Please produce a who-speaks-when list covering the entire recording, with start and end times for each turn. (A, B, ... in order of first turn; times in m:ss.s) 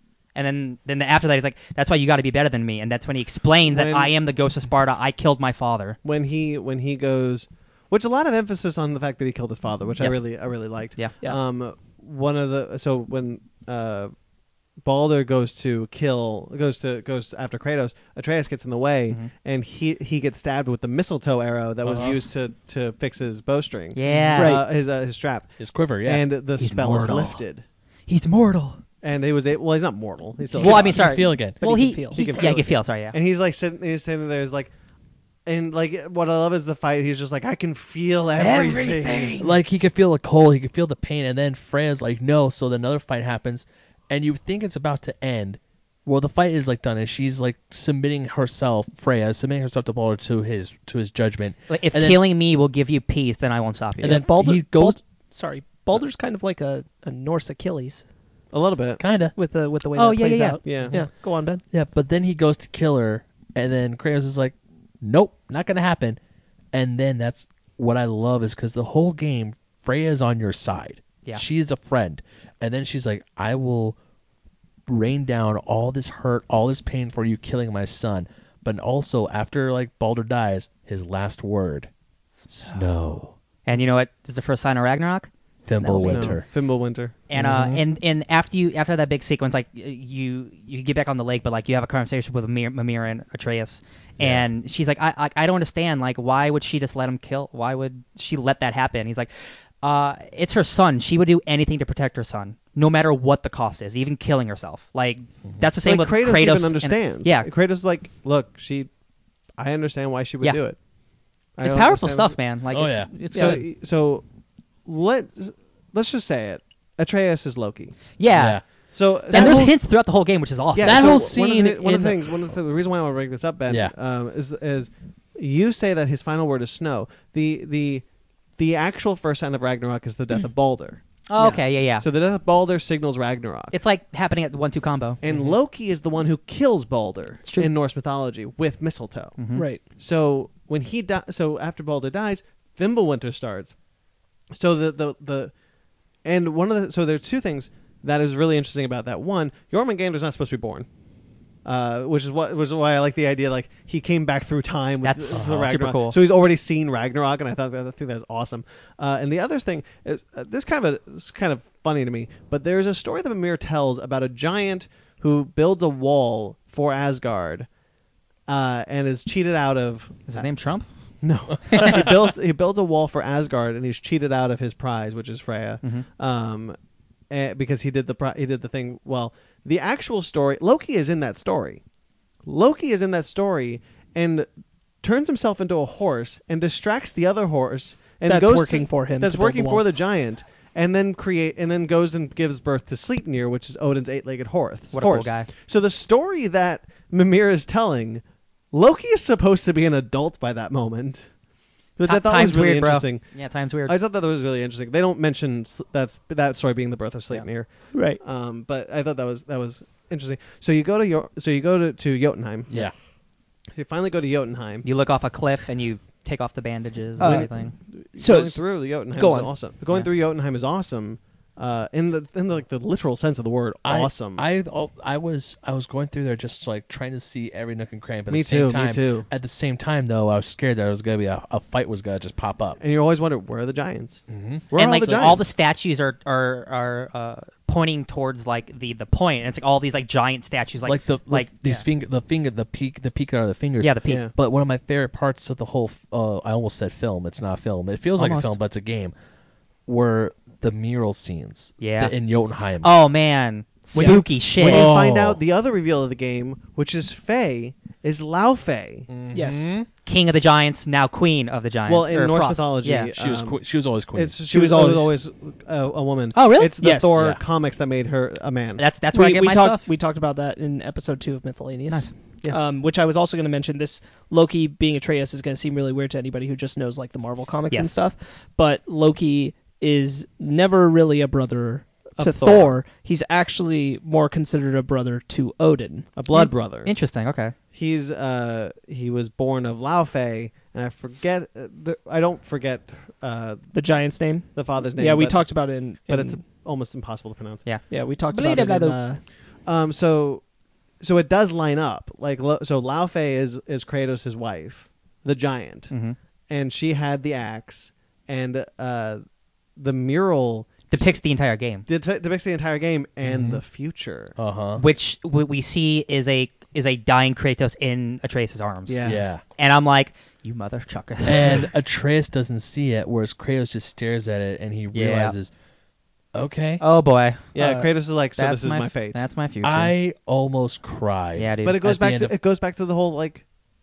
0:00.4-0:06.0 A
0:03.7-0:04.1 B
0:06.0-0:14.1 B
0:14.8-0:25.5 B
0:21.8-0:22.2 C
0:24.0-0:24.6 A
0:24.3-0:24.6 D
0:25.6-0:26.3 C
0:26.0-0:27.6 B
0:26.6-0:27.4 A
0:28.1-0:28.8 A
0:29.0-0:31.0 B
0:30.6-0:31.6 C
0:30.6-0:33.1 A
0:30.9-0:32.5 D
0:32.1-0:34.7 B
0:35.4-0:39.4 B
0:38.4-0:39.5 A
0:39.4-0:52.2 C
0:51.7-0:54.3 A
0:54.0-0:55.0 C
0:54.0-0:58.0 D
0:58.5-0:59.0 B
0:59.0-0:59.3 C
0:59.4-1:01.6 D
1:00.0-1:00.7 A
1:00.6-1:01.0 B
1:00.8-1:01.1 C
1:01.7-1:06.2 C
1:06.7-1:14.0 C
1:14.9-1:21.9 C
1:22.5-1:23.4 C
1:22.6-1:22.9 A
1:23.6-1:26.4 A
1:25.7-1:26.4 C
1:26.0-1:27.1 B
1:27.3-1:47.5 A
1:27.3-1:27.8 C
1:34.2-1:34.4 C
1:45.8-1:48.9 B
1:49.6-1:50.8 B
1:51.6-1:52.4 B
1:51.6-1:53.6 A
1:52.7-1:53.1 C
1:53.3-1:54.3 B
1:54.9-1:58.0 B
1:58.2-1:58.7 A
1:58.3-1:58.6 C
1:58.9-1:59.7 B
1:59.3-1:59.8 C
1:59.3-2:01.2 A
2:00.7-2:08.0 B
2:00.8-2:02.2 C
2:08.6-2:11.0 B
2:11.3-2:12.0 A
2:11.4-2:11.6 D
2:12.0-2:13.8 B
2:13.7-2:15.2 A
2:15.2-2:23.7 B
2:19.4-2:19.7 A
2:19.6-2:19.8 D
2:24.5-2:25.5 B
2:26.2-2:30.9 B
2:31.6-2:47.7 B
2:35.0-2:36.2 A
2:35.3-2:35.7 C
2:48.5-2:50.4 B
2:50.3-2:50.8 A
2:51.2-2:56.8 B
2:51.7-2:52.0 A
2:57.3-3:01.8 B
3:02.4-3:04.5 B
3:05.0-3:21.3 B
3:08.3-3:09.8 D
3:14.9-3:15.5 A
3:22.0-3:23.3 B
3:22.0-3:24.0 A
3:23.9-3:32.9 B
3:27.9-3:28.2 D
3:33.7-3:34.9 B
3:34.8-3:37.7 A
3:37.2-3:37.5 D
3:37.2-3:44.4 B
3:38.2-3:38.6 D
3:39.2-3:39.5 D
3:43.8-3:52.8 C
3:48.3-3:49.3 B
3:52.8-3:55.4 B
3:54.3-3:54.6 C
3:54.7-4:01.8 A
4:00.8-4:09.1 C
4:03.8-4:04.2 A
4:04.1-4:04.3 B
4:08.2-4:08.5 A
4:09.9-4:12.9 C
4:11.8-4:12.1 A
4:12.8-4:14.9 A
4:14.0-4:19.1 B
4:14.0-4:15.4 C
4:19.1-4:19.9 C
4:19.3-4:19.8 D
4:20.0-4:23.1 A
4:21.9-4:23.6 B
4:23.1-4:24.4 C
4:24.1-4:28.8 B
4:24.5-4:25.1 D
4:26.3-4:26.8 A
4:26.8-4:27.2 D
4:27.2-4:27.4 C
4:28.8-4:29.9 A
4:29.1-4:46.1 D
4:37.7-4:38.0 A
4:42.2-4:42.8 B
4:46.2-4:46.9 B
4:46.3-4:47.6 A
4:47.7-4:53.7 B
4:53.7-4:56.4 D
4:54.5-4:57.6 B
4:57.7-4:59.0 A
4:57.9-4:59.2 D
4:59.6-5:00.4 B
5:01.0-5:05.9 B
5:05.9-5:06.2 A
5:06.5-5:09.2 B
5:09.8-5:11.1 B
5:10.9-5:11.9 A
5:11.9-5:14.4 B
5:13.2-5:13.6 C
5:14.4-5:14.8 C
5:14.8-5:21.7 A
5:18.9-5:19.2 B
5:19.0-5:19.4 C
5:21.2-5:25.5 C
5:24.9-5:25.4 A
5:26.3-5:26.8 C
5:26.8-5:29.9 A
5:27.5-5:29.2 B
5:29.6-5:32.3 C
5:31.4-5:31.8 A
5:31.6-5:33.4 B